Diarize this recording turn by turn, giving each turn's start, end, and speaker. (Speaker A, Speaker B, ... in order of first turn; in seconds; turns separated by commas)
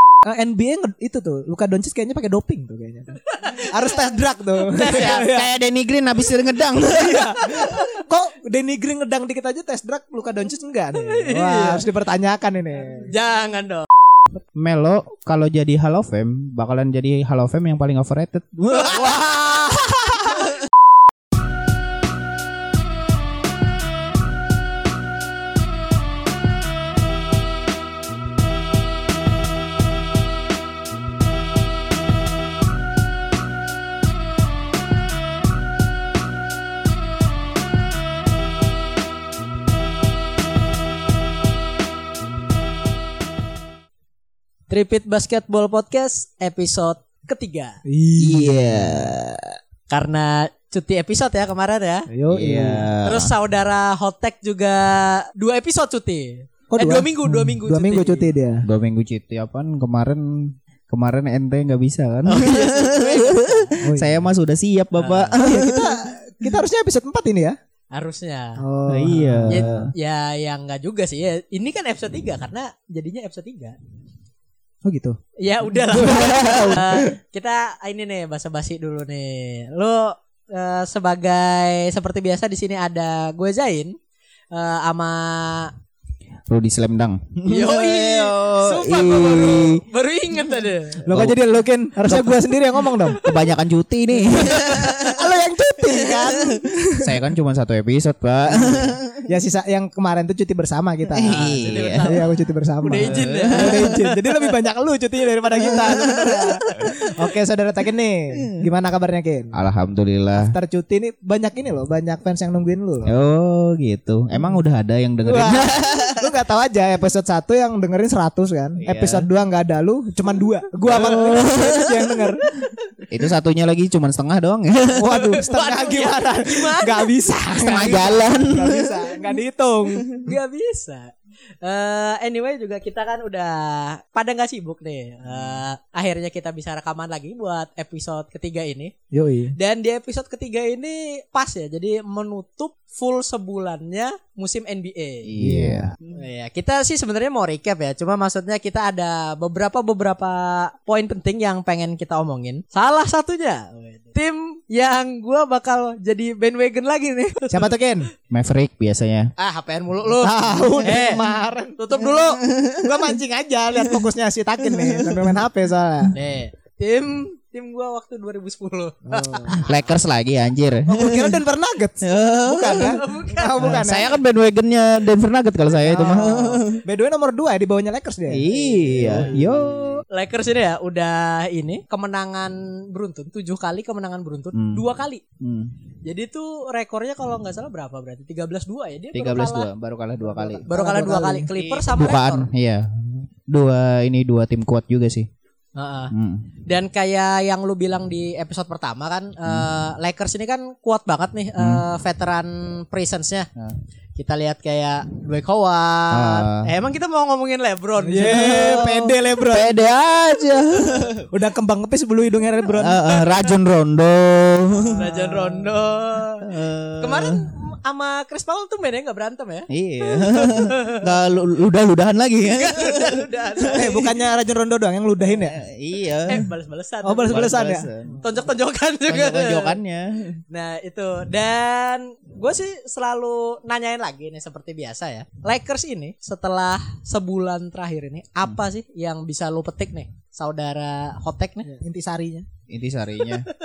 Speaker A: 0.2-5.5, Speaker B: 3.3-3.9, Speaker B: 4.7-5.2, Speaker C: 4.8-7.8, Speaker A: 6.9-13.1, Speaker B: 11.0-11.9, Speaker B: 13.1-13.9, Speaker C: 14.5-19.3, Speaker B: 18.7-20.3, Speaker B: 44.7-47.8, Speaker A: 47.9-49.1, Speaker C: 48.2-49.6, Speaker B: 49.9-52.1, Speaker A: 52.1-52.9, Speaker C: 52.3-53.3, Speaker B: 53.0-58.3, Speaker A: 56.7-58.7, Speaker C: 58.6-66.0, Speaker B: 62.2-63.7, Speaker A: 63.8-64.2, Speaker B: 65.0-65.4, Speaker A: 65.4-67.6, Speaker B: 67.9-68.6, Speaker A: 68.6-69.7, Speaker C: 68.9-69.9, Speaker B: 69.5-73.8, Speaker A: 74.8-75.2, Speaker B: 75.4-84.0, Speaker A: 75.9-77.1, Speaker C: 76.0-77.0, Speaker B: 84.5-85.7, Speaker C: 86.5-89.8, Speaker B: 87.5-91.0, Speaker C: 91.0-91.4, Speaker A: 91.0-93.2, Speaker C: 92.0-92.5, Speaker C: 93.1-99.2, Speaker A: 94.2-97.2, Speaker A: 98.5-109.6, Speaker C: 101.1-102.2, Speaker B: 101.3-104.5, Speaker C: 102.9-103.9, Speaker C: 105.6-106.9, Speaker C: 109.5-110.5, Speaker A: 110.3-113.1, Speaker C: 113.1-116.2, Speaker A: 115.2-122.6, Speaker C: 118.8-119.3, Speaker C: 120.9-122.0, Speaker C: 123.1-125.4, Speaker A: 124.9-130.3, Speaker B: 125.2-127.1, Speaker C: 127.5-129.3, Speaker B: 130.2-138.9, Speaker A: 139.1-139.5, Speaker B: 139.6-145.3, Speaker C: 145.2-145.9, Speaker A: 145.4-146.0, Speaker B: 146.1-157.7, Speaker A: 157.5-158.1, Speaker C: 158.3-159.3, Speaker B: 159.4-161.2, Speaker A: 160.2-166.2, Speaker B: 161.8-162.4, Speaker C: 162.2-163.2, Speaker C: 164.6-165.4, Speaker B: 166.1-169.8, Speaker A: 169.1-169.6, Speaker C: 169.7-171.4, Speaker A: 170.9-174.1, Speaker C: 172.0-173.0, Speaker B: 173.0-174.0, Speaker C: 173.6-176.8, Speaker A: 175.8-180.0, Speaker C: 178.3-180.0, Speaker B: 178.5-179.1, Speaker B: 180.1-185.2, Speaker C: 184.5-184.8, Speaker C: 185.4-185.7, Speaker B: 186.0-189.7, Speaker C: 189.1-190.7, Speaker A: 190.2-191.5, Speaker B: 190.7-192.5, Speaker C: 191.6-195.3, Speaker B: 195.8-196.1, Speaker C: 196.1-196.5, Speaker B: 196.7-203.5, Speaker C: 201.6-201.8, Speaker B: 204.1-208.9, Speaker C: 206.1-206.7, Speaker A: 208.0-209.8, Speaker C: 208.2-211.2, Speaker A: 211.3-213.0, Speaker C: 212.7-215.1, Speaker B: 214.9-216.5, Speaker A: 215.0-215.6, Speaker C: 216.4-217.4, Speaker B: 217.0-221.1, Speaker C: 219.7-224.1, Speaker B: 222.4-224.1, Speaker A: 223.7-225.6, Speaker C: 225.3-226.4, Speaker B: 226.2-227.6, Speaker A: 227.0-227.9, Speaker C: 227.3-228.2, Speaker B: 228.2-229.7, Speaker C: 229.1-230.4, Speaker B: 230.5-241.7, Speaker A: 241.7-242.5, Speaker C: 242.7-243.5